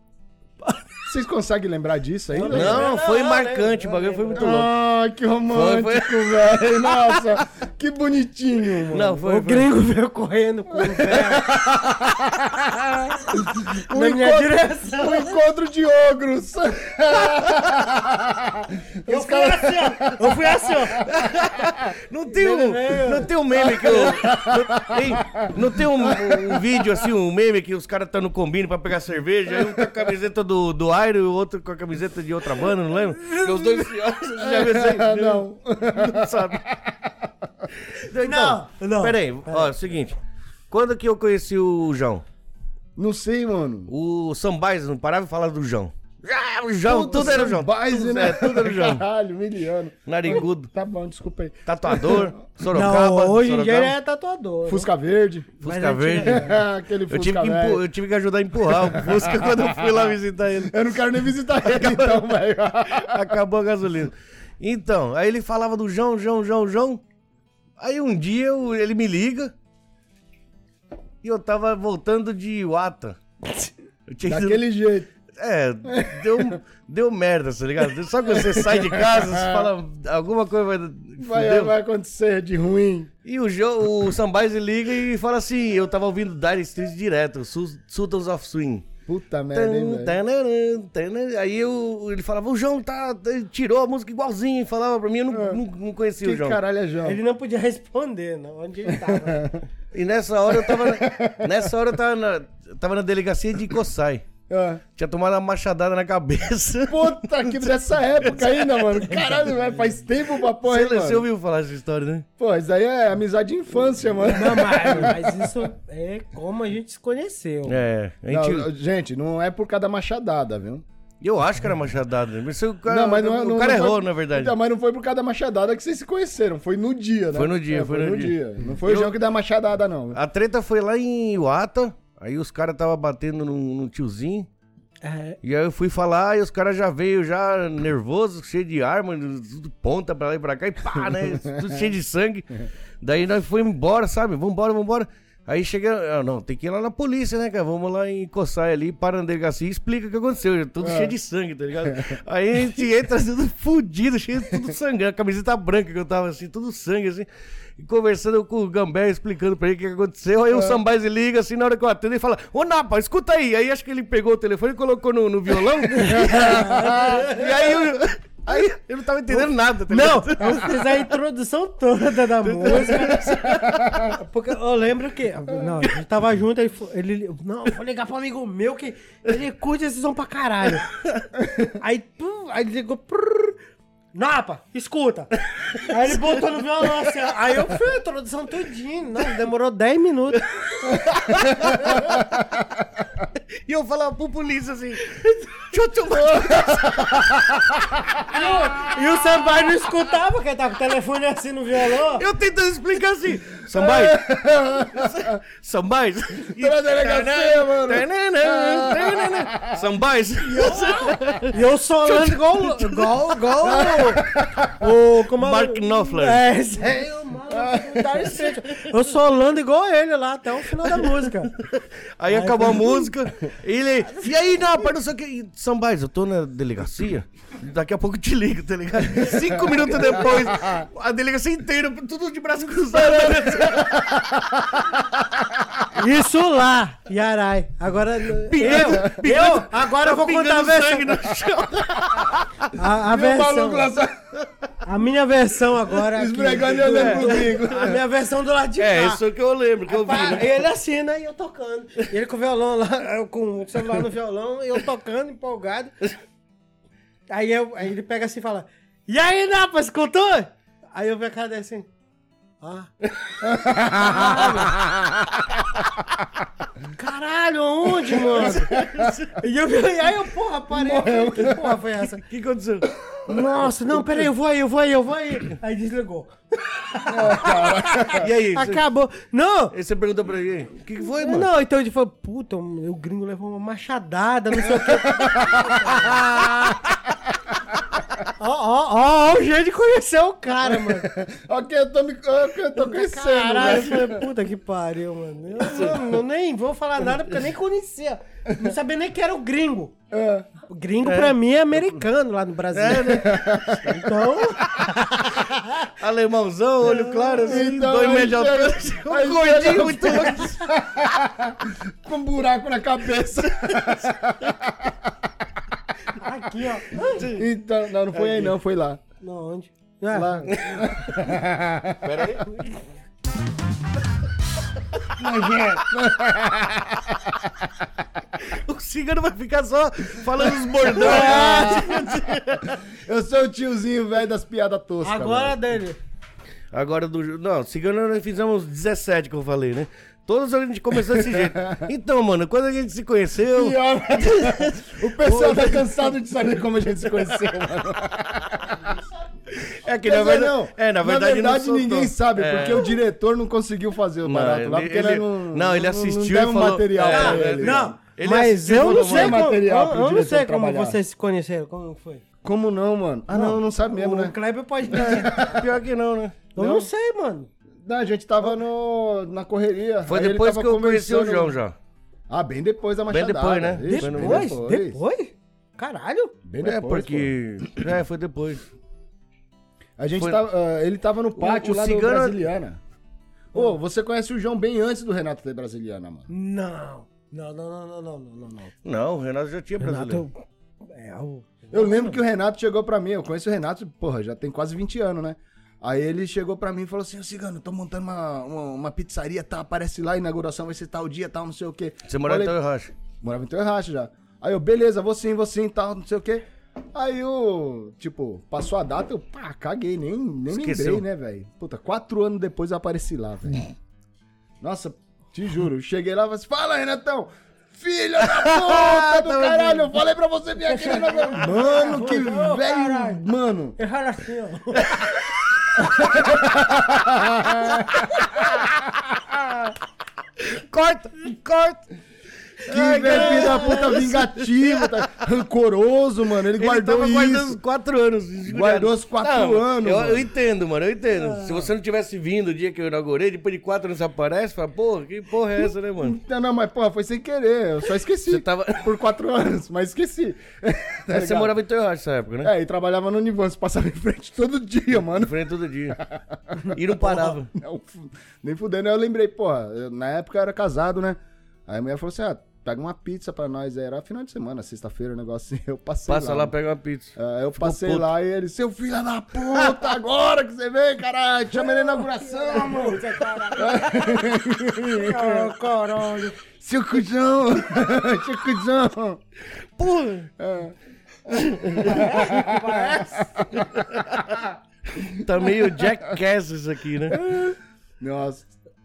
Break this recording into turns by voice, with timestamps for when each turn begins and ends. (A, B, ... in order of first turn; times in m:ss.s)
0:01.0-0:02.9 A
0:02.3-0:04.7 B
0:02.5-0:04.7 C
0:04.3-0:09.2 A
0:05.5-0:07.2 C
0:08.9-0:09.7 C
0:09.2-0:11.5 B
0:11.0-0:21.1 A
0:13.7-0:15.4 B
0:19.0-0:21.1 B
0:21.0-0:36.7 C
0:22.3-0:24.0 B
0:23.6-0:26.9 A
0:29.6-0:29.9 A
0:33.2-0:33.8 B
0:34.4-0:37.7 A
0:37.8-0:40.2 C
0:38.1-0:39.7 B
0:40.7-0:42.2 C
0:43.0-0:43.9 A
0:43.9-0:49.0 C
0:46.8-0:52.4 A
0:46.9-0:47.5 B
0:50.0-0:50.7 C
0:51.6-0:53.9 C
0:52.7-0:54.9 B
0:54.6-0:55.5 A
0:55.6-1:00.8 C
0:55.6-0:56.6 B
0:56.2-0:57.8 A
0:58.6-1:03.3 A
1:01.6-1:02.3 C
1:02.9-1:07.0 C
1:07.8-1:09.5 C
1:11.2-1:13.2 C
1:14.1-1:14.6 C
1:14.2-1:15.1 A
1:15.3-1:21.7 C
1:15.8-1:16.6 A
1:18.2-1:19.7 A
1:21.2-1:23.1 A
1:23.2-1:28.9 C
1:29.0-1:30.2 A
1:29.5-1:36.6 C
1:35.3-1:35.6 A
1:36.2-1:37.2 A
1:37.0-1:39.6 B
1:38.9-1:39.6 A
1:39.9-1:44.3 C
1:40.5-1:41.6 A
1:44.5-1:44.8 A
1:45.0-1:47.7 C
1:46.9-1:51.3 A
1:48.8-1:50.0 B
1:50.6-1:52.2 C
1:52.4-1:55.7 A
1:54.2-1:57.8 B
1:57.6-1:58.7 C
1:58.3-2:00.8 A
2:01.2-2:04.6 C
2:02.8-2:10.2 A
2:07.3-2:09.2 C
2:10.1-2:14.5 C
2:15.0-2:15.4 B
2:15.4-2:50.8 C
2:30.8-2:31.1 A
2:31.8-2:32.2 A
2:40.5-2:40.8 A
2:45.9-2:47.9 B
2:46.2-2:47.2 A
2:49.3-2:53.4 B
2:52.4-2:54.2 C
2:53.4-2:54.1 A
2:54.0-3:00.9 B
3:01.0-3:01.2 C
3:01.6-3:03.6 B
3:04.1-3:11.9 B
3:05.5-3:06.4 C
3:10.6-3:12.4 C
3:12.2-3:12.8 A
3:13.6-3:17.5 C
3:16.6-3:18.4 A
3:18.2-3:22.3 B
3:22.1-3:24.2 C
3:23.7-3:25.4 A
3:24.9-3:36.4 C
3:26.5-3:29.9 A
3:30.5-3:41.5 B
3:30.7-3:31.3 A
3:33.8-3:34.7 A
3:37.5-3:38.3 A
3:38.3-3:38.9 C
3:40.8-3:54.5 C
3:42.3-3:43.1 B
3:44.1-3:44.6 B
3:49.4-3:50.9 A
3:52.9-3:55.9 A
3:55.9-4:01.3 B
3:58.5-4:02.7 C
4:02.7-4:03.9 B
4:03.0-4:04.2 A
4:04.8-4:09.2 B
4:06.0-4:08.0 A
4:06.9-4:08.0 C
4:08.8-4:10.6 C
4:09.9-4:15.9 B
4:17.3-4:21.9 B
4:22.6-4:22.9 B
4:23.4-4:26.0 A
4:23.9-4:24.8 B
4:24.2-4:24.4 C
4:26.9-4:28.7 B
4:28.2-4:29.1 A
4:28.2-4:29.4 C
4:29.4-4:32.2 B
4:30.7-4:31.8 A
4:32.0-4:32.9 C
4:33.2-4:34.3 A
4:33.2-4:39.7 B
4:37.1-4:38.3 A
4:38.1-4:38.8 C
4:39.7-4:41.5 C
4:41.0-4:46.8 B
4:44.7-4:46.8 A
4:48.3-4:51.1 B
4:50.6-4:54.3 A
4:52.7-4:59.9 B
4:55.6-4:56.0 C
5:00.1-5:00.5 A
5:00.7-5:05.9 B
5:01.0-5:01.3 C
5:02.7-5:03.9 C
5:03.2-5:03.8 A
5:05.4-5:10.7 C
5:06.8-5:07.7 B
5:07.4-5:15.1 A
5:10.0-5:10.5 B
5:13.4-5:14.1 C
5:16.1-5:17.4 B
5:17.0-5:17.4 C
5:17.2-5:19.0 A
5:18.1-5:18.5 C
5:19.2-5:20.6 B
5:20.1-5:22.3 A
5:20.5-5:20.8 C
5:22.0-5:22.5 C
5:22.5-5:22.8 B
5:25.2-5:27.8 A
5:25.4-5:25.7 B
5:28.4-5:32.8 C
5:30.8-5:32.0 A
5:30.8-5:32.0 B
5:32.8-5:35.7 A
5:35.0-5:36.0 B
5:36.7-5:45.6 C
5:41.0-5:41.9 A
5:43.4-5:48.9 A
5:45.3-5:45.9 B
5:49.6-5:53.0 C
5:50.0-5:57.9 A
5:54.2-5:59.5 C
5:57.0-6:02.2 B
5:58.8-6:01.0 A
6:02.4-6:05.6 A
6:03.3-6:05.7 B
6:05.2-6:06.8 C
6:06.6-6:07.5 B
6:07.8-6:11.6 A
6:10.0-6:11.8 C
6:12.3-6:15.0 A
6:13.1-6:14.5 C
6:13.8-6:16.4 B
6:16.4-6:17.9 A
6:16.6-6:18.6 C
6:20.0-6:22.8 A
6:21.3-6:22.5 C
6:23.5-6:26.3 A
6:26.3-6:28.7 B
6:28.8-6:30.2 C
6:29.8-6:32.2 B
6:31.7-6:42.6 A
6:42.1-6:42.9 C
6:43.2-6:53.6 A
6:50.5-6:51.0 C
6:54.6-7:03.8 A
6:58.2-7:00.0 C
7:00.7-7:03.2 B
7:03.8-7:05.1 B
7:05.8-7:09.7 A
7:10.4-7:11.8 C
7:12.6-7:15.0 C
7:12.6-7:17.6 A
7:13.0-7:14.0 B
7:16.6-7:26.2 C
7:18.4-7:20.3 A
7:21.1-7:21.7 B
7:25.6-7:31.6 A
7:28.2-7:28.9 C
7:31.1-7:32.5 C
7:32.4-7:35.4 A
7:35.0-7:36.0 C
7:35.9-7:46.5 A
7:36.6-7:37.5 C
7:46.1-7:48.1 C
7:47.2-7:55.5 A
7:51.5-7:56.4 B
7:56.2-7:59.2 A
7:59.8-8:00.3 C
8:00.4-8:00.7 A
8:01.3-8:06.1 A
8:01.3-8:02.1 C
8:01.8-8:03.4 B
8:03.6-8:04.4 C
8:05.2-8:07.2 C
8:07.1-8:08.5 A